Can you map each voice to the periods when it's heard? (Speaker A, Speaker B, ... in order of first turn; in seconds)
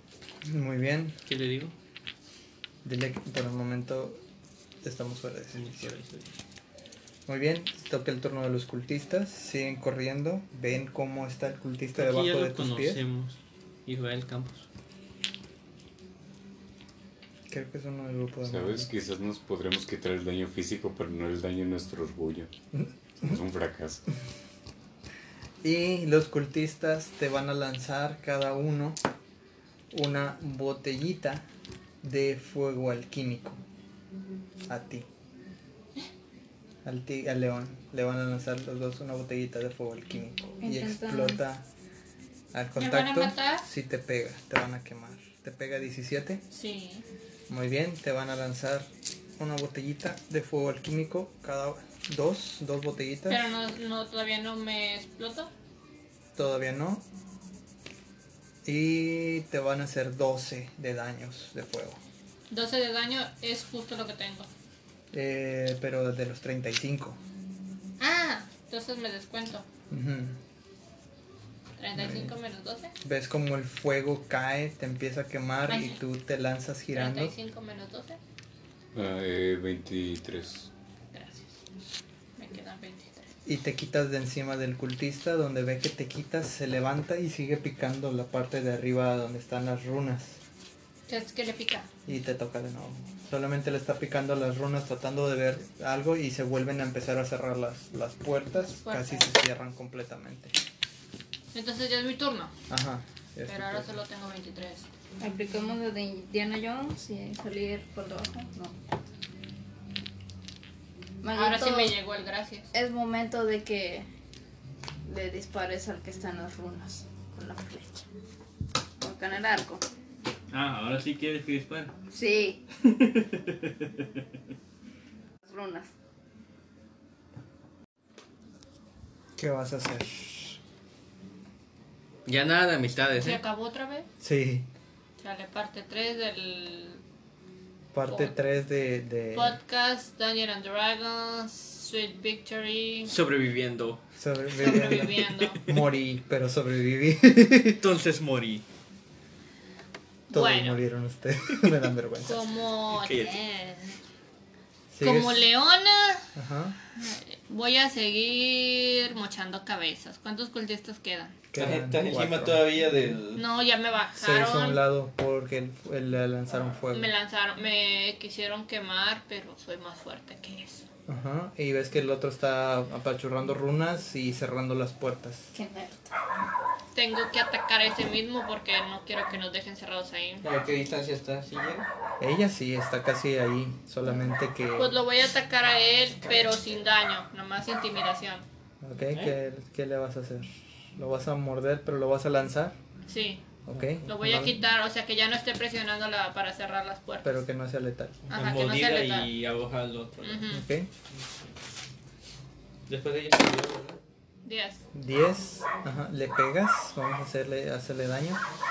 Speaker A: 0.4-1.2, 2.8-4.2, 4.8-5.9, 7.3-13.0, 17.5-18.9, 25.6-29.0, 29.9-31.4, 32.0-33.6, 34.7-35.1, 36.8-41.6, 42.5-46.4, 47.5-48.9, 49.4-53.4, 56.4-57.0, 58.6-62.0, 65.1-67.2, 69.9-70.4, 72.0-72.3, 73.0-77.3, 83.5-90.4, 92.0-100.5, 102.7-103.9, 129.4-130.6, 134.2-134.7, 137.9-139.6, 144.2-147.8, 150.3-152.4, 154.9-155.5, 156.3-156.8, 161.5-162.7, 164.2-167.1, 171.1-175.5, 182.2-185.0, 188.8-192.8, 193.7-194.6, 197.2-198.2, 200.5-200.9, 204.9-208.4
Speaker B: 1.3-1.7, 5.5-6.3, 11.9-14.7, 120.5-121.9, 122.8-124.1, 132.2-133.4, 143.1-144.0, 144.8-145.8, 147.8-148.6, 151.5-151.8, 152.9-153.3, 161.5-163.4, 180.4-181.9, 189.1-189.4, 198.3-200.5, 202.9-204.0
Speaker C: 18.5-22.5, 23.2-24.0, 78.9-80.7
Speaker D: 40.6-41.4, 105.2-108.8, 111.2-112.0, 112.7-114.1, 115.0-118.0, 119.0-119.8, 122.1-122.6, 125.4-125.9, 175.5-176.1
Speaker E: 42.8-43.6, 46.5-47.0, 53.3-55.5, 62.5-64.5, 68.0-69.7, 71.8-72.9, 75.7-76.0, 76.9-78.2, 81.1-81.5, 82.4-83.3, 91.1-91.9, 98.5-99.3, 101.5-102.5, 103.5-104.9, 111.3-112.7, 133.2-134.1, 135.2-137.0, 138.1-138.3, 139.3-143.1, 144.6-145.6, 150.3-150.8, 152.2-154.0, 155.0-156.3, 156.9-161.4, 163.3-164.8, 166.9-170.8, 176.9-180.4, 184.8-188.4, 193.1-193.4, 194.0-197.4, 198.3-199.3, 200.2-200.7, 204.4-204.8